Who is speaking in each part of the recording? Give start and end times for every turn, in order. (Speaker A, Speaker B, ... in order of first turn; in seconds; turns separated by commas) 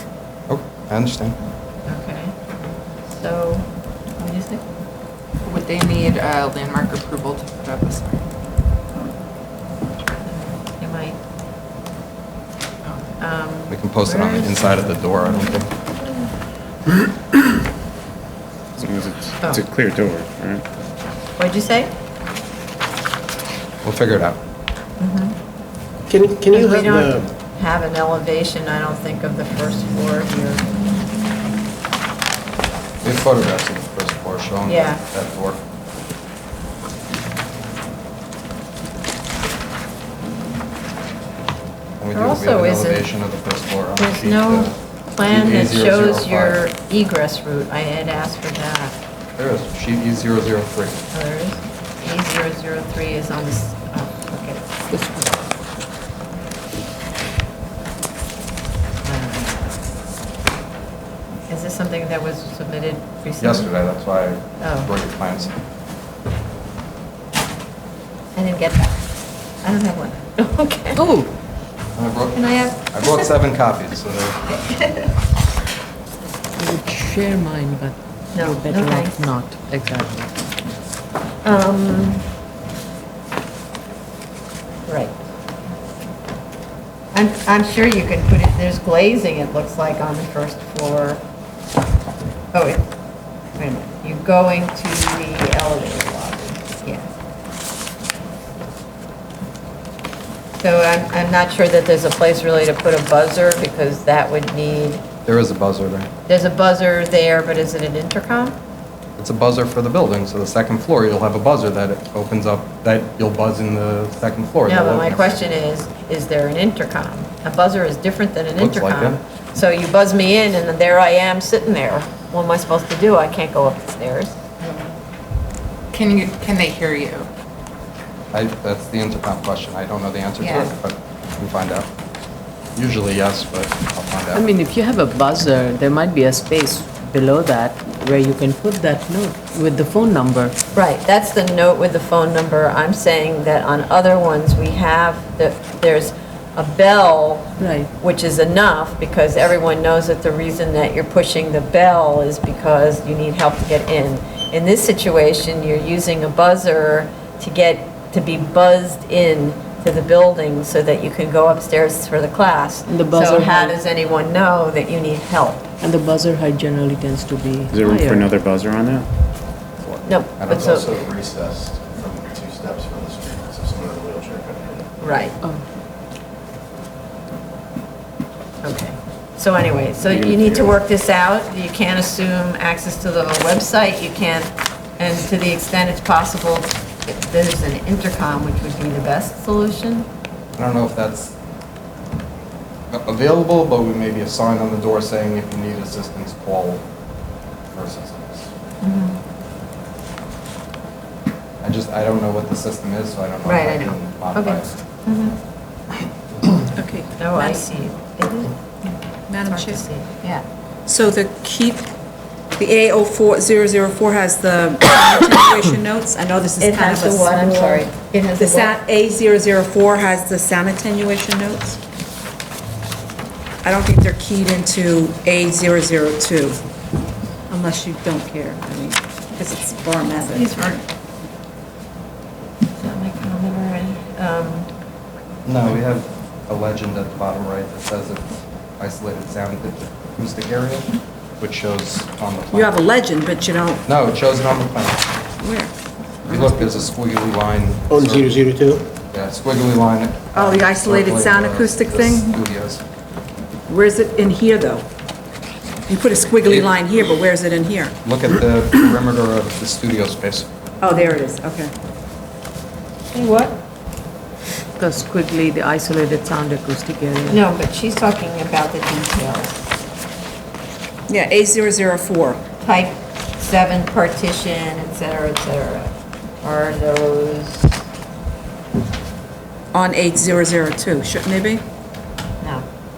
Speaker A: 0.5-1.4, Speaker B: 1.9-2.3, Speaker B: 3.1-3.7, Speaker B: 4.2-4.6, Speaker C: 5.5-5.8, Speaker D: 5.7-7.7, Speaker C: 7.6-8.2, Speaker B: 10.2-11.2, Speaker B: 13.2-15.6, Speaker A: 13.7-15.7, Speaker E: 18.8-20.6, Speaker B: 21.4-21.9, Speaker A: 23.8-24.4, Speaker B: 25.0-25.4, Speaker F: 26.1-27.3, Speaker B: 26.5-30.6, Speaker A: 33.0-35.6, Speaker B: 34.7-35.0, Speaker A: 42.0-46.6, Speaker B: 42.1-43.0, Speaker B: 44.0-49.0, Speaker A: 49.4-51.0, Speaker B: 51.1-54.8, Speaker B: 59.0-59.7, Speaker B: 61.5-63.7, Speaker A: 63.4-65.6, Speaker B: 64.6-64.9, Speaker B: 68.3-69.0, Speaker B: 69.6-71.0, Speaker G: 71.0-71.3, Speaker A: 72.0-74.4, Speaker B: 72.3-73.3, Speaker B: 74.5-75.1, Speaker G: 76.6-80.3, Speaker B: 78.3-79.3, Speaker B: 81.4-82.3, Speaker B: 84.9-85.2, Speaker B: 87.1-91.2, Speaker B: 92.5-92.9, Speaker B: 93.6-97.1, Speaker B: 100.6-105.0, Speaker A: 105.2-106.1, Speaker B: 106.3-108.6, Speaker A: 109.2-115.4, Speaker B: 114.7-124.4, Speaker A: 118.6-119.2, Speaker D: 125.9-127.3, Speaker A: 128.3-131.9, Speaker A: 132.8-134.4, Speaker G: 134.3-140.6, Speaker B: 140.8-165.7, Speaker G: 147.6-147.9, Speaker G: 162.9-163.8, Speaker G: 165.8-168.3, Speaker E: 167.7-169.1, Speaker B: 170.0-170.9, Speaker A: 170.4-170.8, Speaker H: 170.5-174.9, Speaker B: 175.0-175.4, Speaker B: 178.6-190.1, Speaker E: 180.1-180.7, Speaker A: 190.6-191.3, Speaker A: 192.9-196.8, Speaker A: 197.7-198.5, Speaker B: 198.8-199.2, Speaker A: 201.6-204.8, Speaker B: 203.4-205.4, Speaker C: 206.8-207.6, Speaker B: 207.2-208.5, Speaker C: 209.3-209.8, Speaker B: 209.4-210.4, Speaker C: 210.9-211.9, Speaker C: 212.6-221.8, Speaker B: 216.6-218.8, Speaker C: 223.6-226.6, Speaker C: 227.5-230.8, Speaker B: 230.1-230.8, Speaker B: 232.8-234.7, Speaker A: 235.5-238.3, Speaker A: 238.8-242.8, Speaker C: 242.5-243.8, Speaker A: 243.9-245.1, Speaker C: 245.4-245.7, Speaker C: 246.2-246.8, Speaker A: 246.3-248.4, Speaker F: 247.9-248.8, Speaker A: 249.1-252.8, Speaker C: 250.3-252.4, Speaker C: 253.7-254.8, Speaker C: 255.9-257.9, Speaker A: 256.4-256.7, Speaker A: 258.0-260.5, Speaker C: 260.8-261.7, Speaker B: 263.1-263.6, Speaker G: 264.8-267.4, Speaker B: 267.3-269.7, Speaker C: 271.1-272.4, Speaker B: 272.6-275.9, Speaker B: 276.4-277.8, Speaker C: 279.7-281.6